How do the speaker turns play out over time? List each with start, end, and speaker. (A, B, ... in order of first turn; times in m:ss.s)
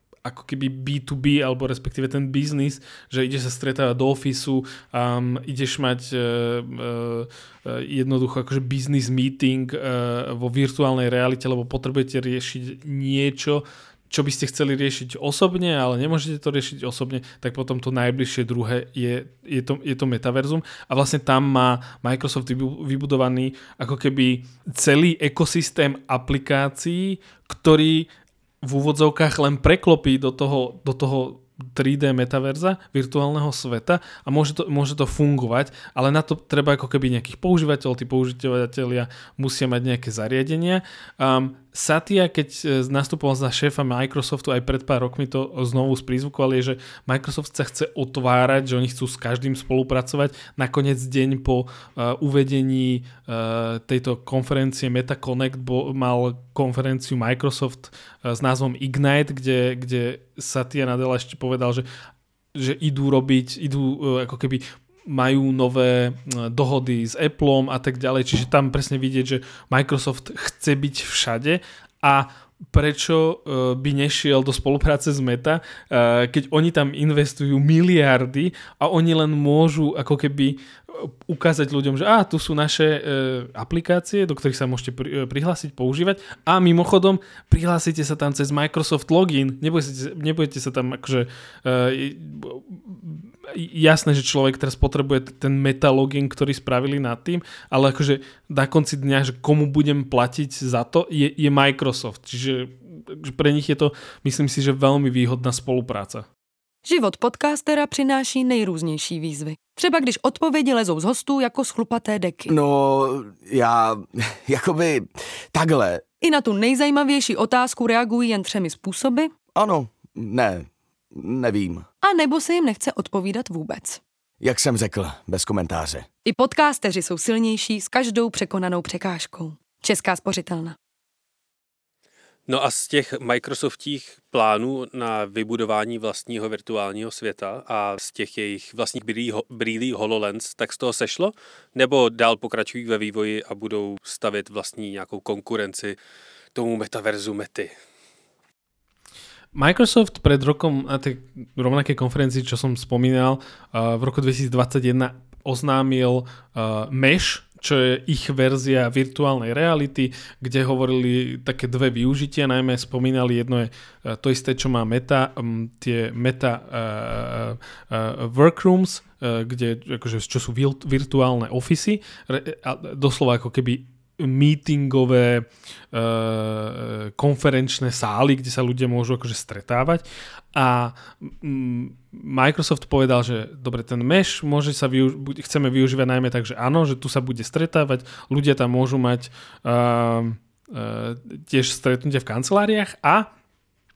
0:00.2-0:28.1 A
0:28.6-1:01.8 A
1:02.5-1:46.3 A
1:46.8-1:52.5 B
1:52.5-1:56.0 C
1:56.2-1:59.3 B
1:59.5-2:01.9 C
2:02.0-2:04.0 B
2:04.4-2:06.1 C
2:06.2-2:10.8 B
2:12.5-2:26.0 D
2:26.5-2:27.7 D
2:29.5-3:13.3 A